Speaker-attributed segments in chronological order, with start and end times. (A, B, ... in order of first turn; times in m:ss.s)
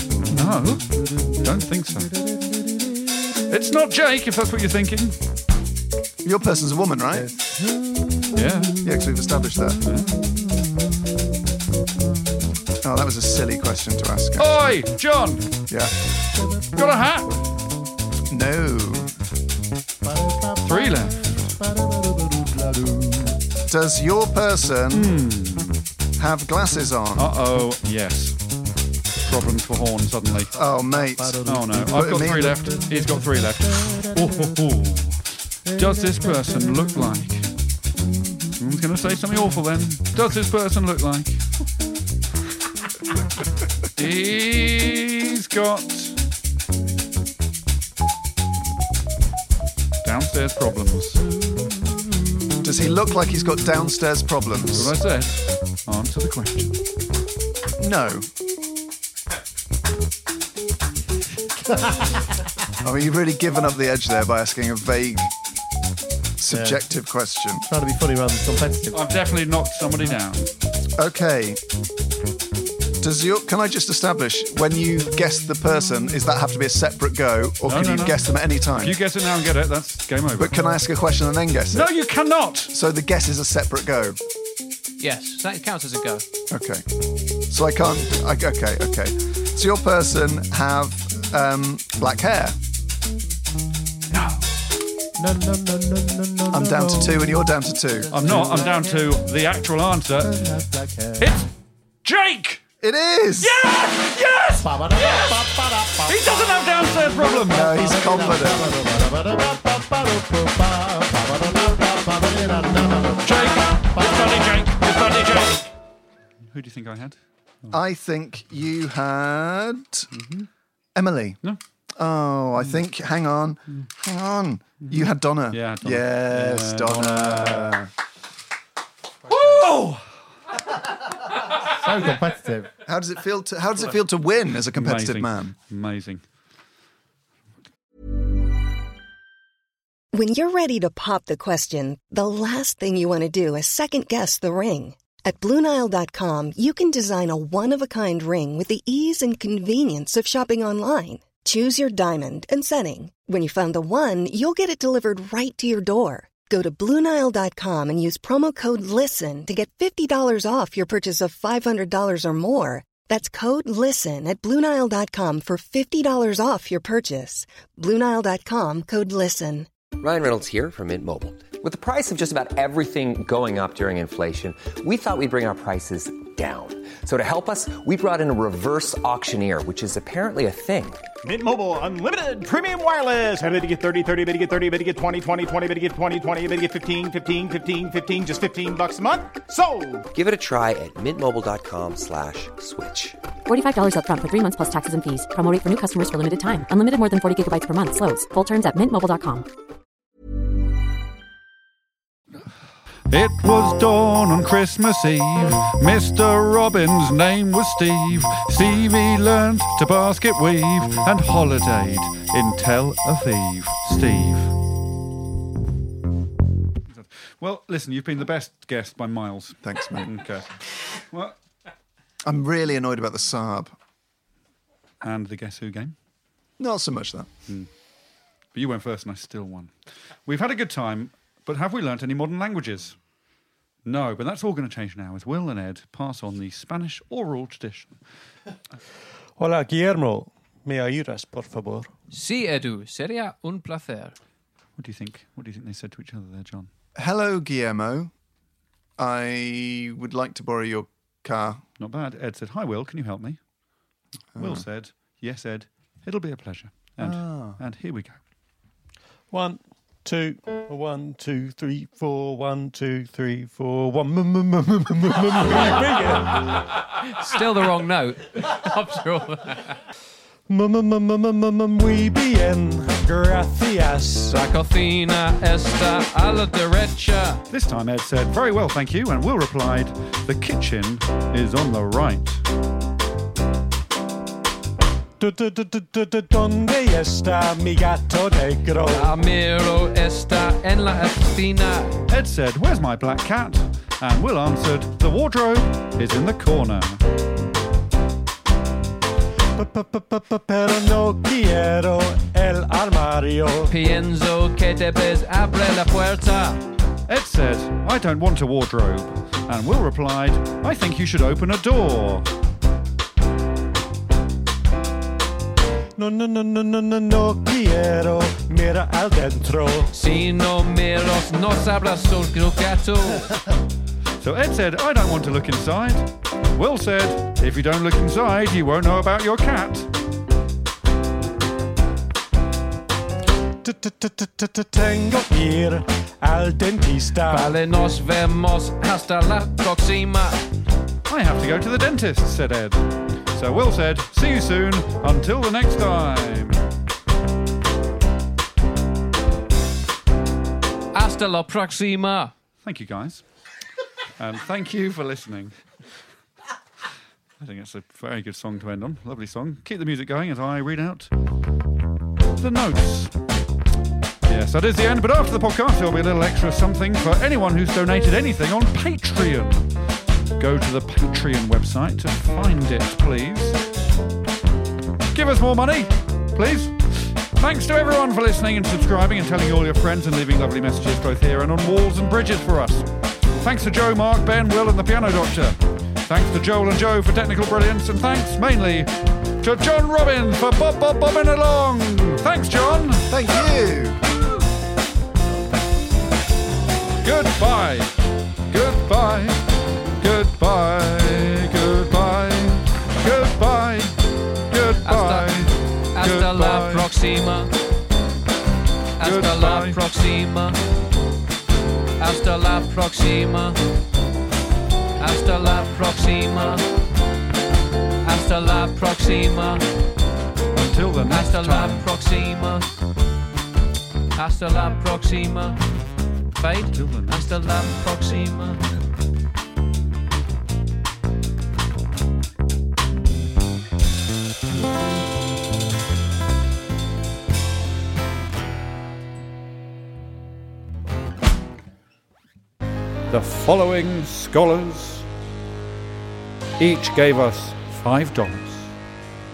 0:00.3-0:02.1 A
0:03.5-0:05.2 A
0:06.2-0:07.3 B
0:07.2-0:08.4 C
0:08.4-0:08.8 A
0:08.8-0:09.8 B
0:09.8-0:10.3 A
0:12.8-0:14.6 B
0:14.4-0:15.5 A
0:16.8-0:17.4 A
0:18.3-0:19.1 B
0:20.0-0:23.4 C
0:20.6-0:21.5 A
0:23.7-0:25.1 B
0:24.9-0:25.8 A
0:26.2-0:27.3 B
0:27.2-0:28.4 A
0:29.2-0:30.6 A
0:30.6-0:32.6 B
0:31.1-0:33.2 C
0:31.4-0:37.5 A
0:33.8-0:34.2 C
0:38.6-0:41.4 A
0:44.0-0:46.2 A
0:50.0-0:51.2 A
0:52.6-0:54.9 B
0:54.7-0:56.8 A
0:57.8-0:58.3 B
1:02.8-1:05.3 B
1:06.4-1:07.6 B
1:06.5-1:06.8 C
1:07.6-1:09.0 C
1:08.9-1:10.5 A
1:11.0-1:11.6 B
1:13.0-1:19.0 B
1:17.7-1:20.6 A
1:20.4-1:21.9 B
1:21.7-1:22.7 A
1:22.7-1:24.2 B
1:25.0-1:26.2 D
1:26.5-1:26.8 B
1:27.5-1:32.6 B
1:34.1-1:34.4 A
1:35.2-1:39.1 C
1:36.5-1:38.1 B
1:38.1-1:40.4 A
1:40.2-1:41.3 C
1:41.2-1:41.5 A
1:42.0-1:42.6 A
1:42.8-1:43.6 B
1:43.4-1:45.4 A
1:44.6-1:46.6 C
1:46.0-1:47.8 A
1:47.1-1:54.4 C
1:47.5-1:48.7 B
1:53.2-1:55.7 A
1:56.5-1:57.8 A
1:57.7-2:00.1 B
2:00.1-2:00.5 A
2:01.0-2:01.4 B
2:02.0-2:07.9 B
2:04.8-2:07.8 A
2:09.3-2:10.1 A
2:11.7-2:12.7 C
2:12.9-2:15.6 B
2:14.7-2:16.2 A
2:20.1-2:49.7 E
2:50.0-3:01.0 F
3:01.2-3:10.1 G
3:10.1-3:13.2 F
3:13.5-3:19.5 H
3:23.1-3:34.5 A
3:36.9-3:41.4 A
3:39.6-3:40.1 B
3:42.3-3:43.7 B
3:45.0-3:46.0 A
3:46.6-3:47.3 B
3:48.5-3:49.7 A
3:50.3-3:53.0 A
3:53.8-3:58.0 A
3:59.4-4:01.9 I
4:02.1-4:04.2 D
4:04.8-4:06.7 A
4:07.0-4:08.1 B
4:09.0-4:11.6 B
4:11.8-4:13.4 A
4:14.4-4:14.6 B
4:14.4-4:18.2 A
4:17.0-4:17.6 B
4:19.3-4:26.3 I
4:26.9-4:29.7 D
4:30.5-4:34.4 I
4:34.3-4:37.4 D
4:37.5-4:42.4 A
4:45.2-4:49.1 I
4:48.8-4:52.0 D
4:52.1-4:57.0 A
4:59.6-5:03.7 I
5:03.7-5:06.6 D
5:07.1-5:12.3 A
5:16.0-5:19.9 I
5:19.9-5:23.3 D
5:24.2-5:29.9 A
5:33.6-5:37.4 I
5:37.2-5:40.5 D
5:41.1-5:46.6 A
5:50.9-5:52.3 D
5:52.6-5:53.2 A
5:54.2-5:55.6 A
5:57.4-6:01.1 A
6:02.3-6:03.2 A
6:04.2-6:09.7 A
6:10.4-6:13.6 A
6:15.1-6:33.1 A
6:33.1-6:34.0 B
6:37.0-6:38.0 A
6:38.5-6:39.4 A
6:40.0-6:46.9 A
6:44.8-6:45.3 D
6:45.9-6:47.5 D
6:49.0-6:50.6 D
6:49.0-6:49.8 A
6:52.0-6:53.6 D
6:55.0-6:56.6 D
6:58.0-6:59.6 D
7:00.5-7:01.9 A
7:01.1-7:02.7 D
7:04.2-7:05.6 D
7:06.4-7:08.8 D
7:06.7-7:07.6 A
7:23.1-7:25.1 A
7:26.6-7:28.8 A